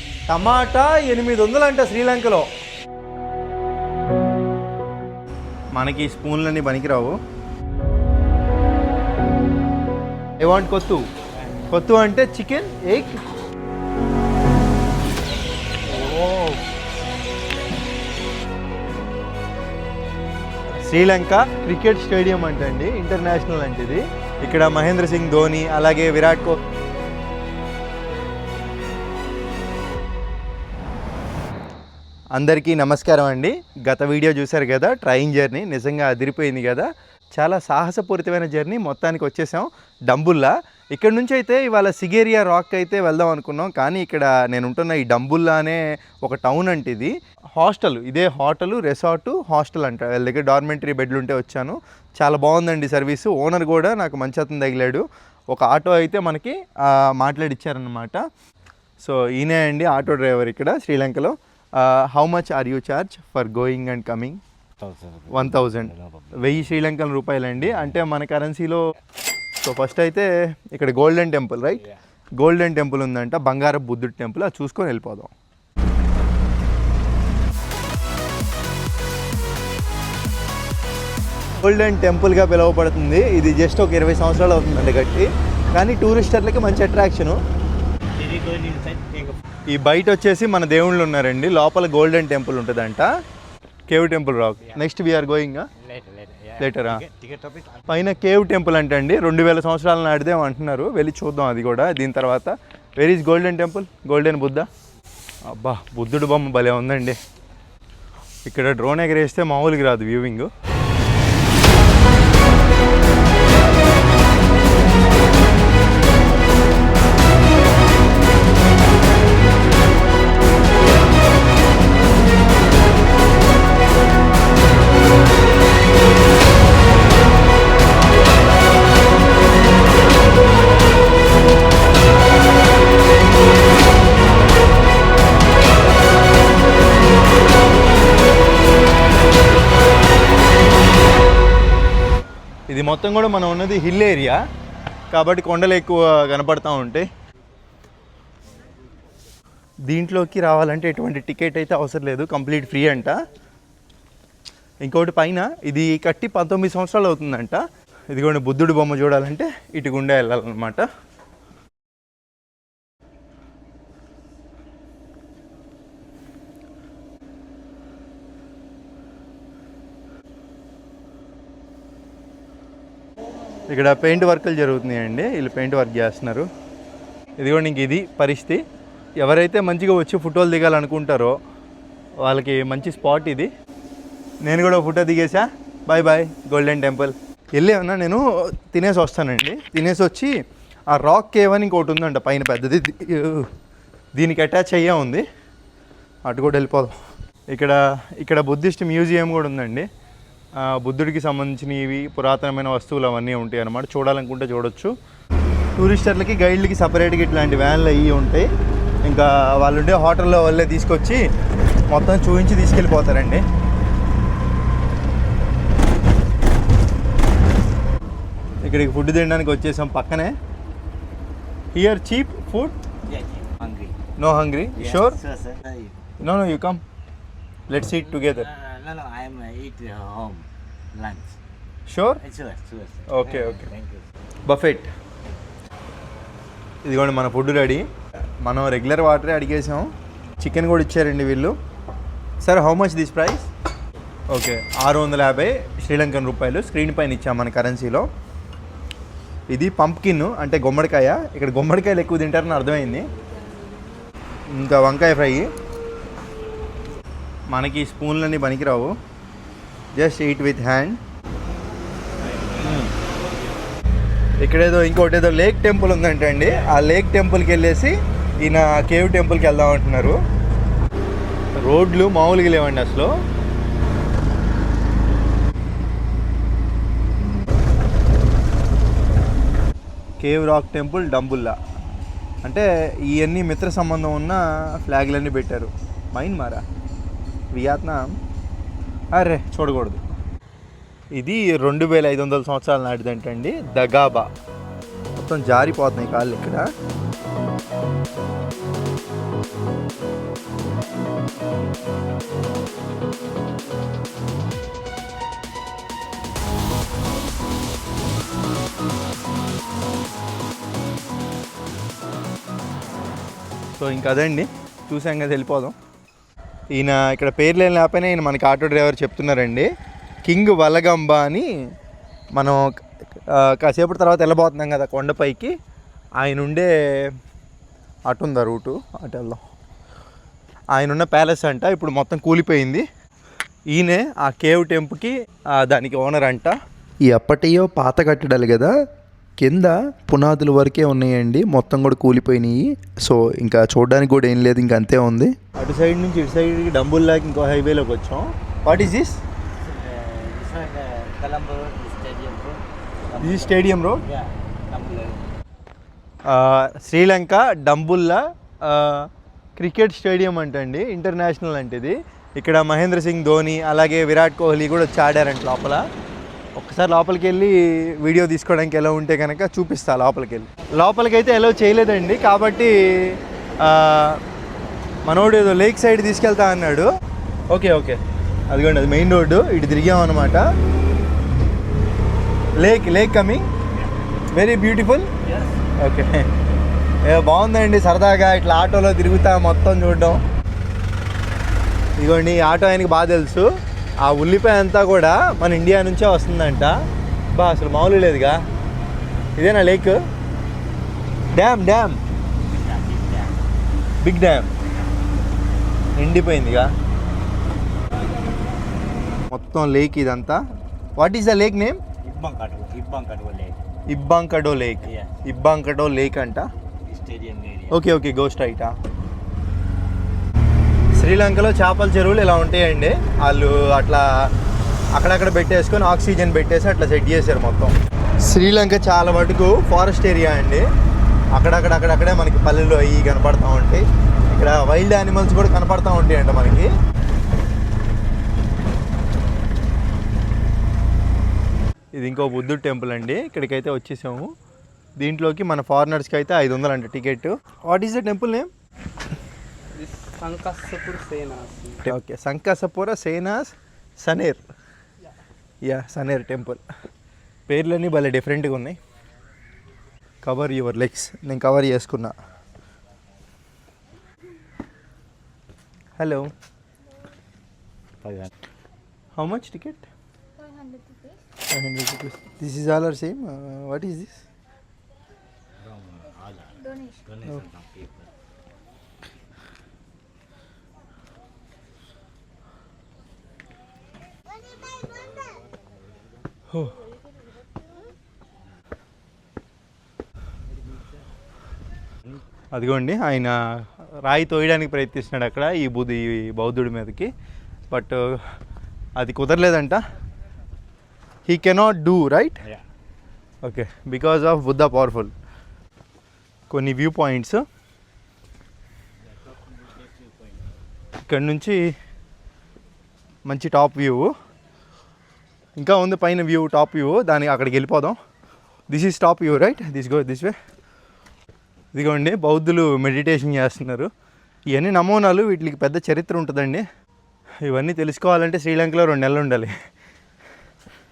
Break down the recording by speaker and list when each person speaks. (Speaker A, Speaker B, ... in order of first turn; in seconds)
Speaker A: 0.3-2.5, 5.7-7.2, 10.4-11.0, 11.7-13.2, 20.8-26.6, 32.4-58.2, 59.0-64.4, 65.3-68.8, 69.6-71.8, 72.4-75.3, 81.6-87.4, 89.7-93.1, 93.9-95.7, 96.6-97.0, 97.9-104.7, 105.5-107.2, 108.5-110.5, 142.7-144.4, 145.1-147.1, 149.9-153.2, 154.8-160.9, 173.7-176.4, 177.4-178.6, 179.2-181.3, 182.2-183.5, 184.4-190.3, 190.9-193.5, 194.2-195.2, 196.2-196.9, 197.5-199.9, 200.6-204.9, 205.8-208.4, 209.1-211.2, 211.9-213.4, 218.6-220.3, 221.7-222.8, 224.2-225.2, 226.2-226.8, 227.7-228.5, 231.9-232.2, 233.1-233.7, 234.4-234.9, 236.8-237.8, 238.4-239.9, 240.4-241.6, 242.4-243.5, 244.3-248.1, 249.5-253.1, 254.5-255.5, 257.5-258.9, 259.9-261.0, 262.6-262.9, 264.4-270.2, 271.6-273.1, 280.2-281.6, 282.4-286.6, 287.5-288.1, 289.1-290.0, 291.1-294.3, 295.1-296.7, 313.8-315.7, 316.7-319.7, 320.2-321.5, 322.4-322.6, 323.3-325.5, 326.2-327.1, 328.1-329.4, 330.7-332.8, 333.7-338.7, 339.4-349.2, 353.2-354.0, 356.3-365.8, 366.6-374.2, 375.0-376.9, 377.5-378.0, 378.5-380.4, 382.6-383.5, 384.3-385.1, 385.8-386.3, 387.0-390.2, 392.0-393.5, 394.0-396.7, 397.3-398.4, 399.4-400.0, 401.3-402.0, 404.0-404.5, 406.0-406.7, 409.3-410.4, 411.0-411.8, 413.9-416.4, 417.7-418.8, 420.9-424.3, 424.9-427.7, 428.2-430.6, 431.3-436.7, 441.9-444.3, 445.0-448.5, 451.8-454.4, 455.6-456.6, 457.5-458.8, 460.2-462.1, 466.0-466.3, 469.2-469.8, 471.5-474.2, 492.5-493.4, 494.0-497.1, 497.7-498.3, 499.0-499.8, 501.2-502.4, 503.4-505.1, 506.5-507.4, 511.1-511.7, 513.3-514.1, 515.6-518.0, 518.7-520.3, 521.7-523.9, 524.5-526.6, 527.5-529.5
Speaker B: 16.0-16.6, 64.8-66.8, 67.6-68.0, 71.7-72.0, 88.2-89.4, 94.6-94.9, 95.8-98.1, 223.1-224.0, 224.8-226.1, 227.9-231.4, 232.2-234.1, 262.2-262.8, 349.6-355.4, 385.2-385.6, 402.4-403.4, 412.0-413.7, 414.8-415.2, 416.9-417.8, 468.0-468.3, 475.6-478.1, 490.5-491.0, 509.1-510.5
Speaker C: 449.8-451.8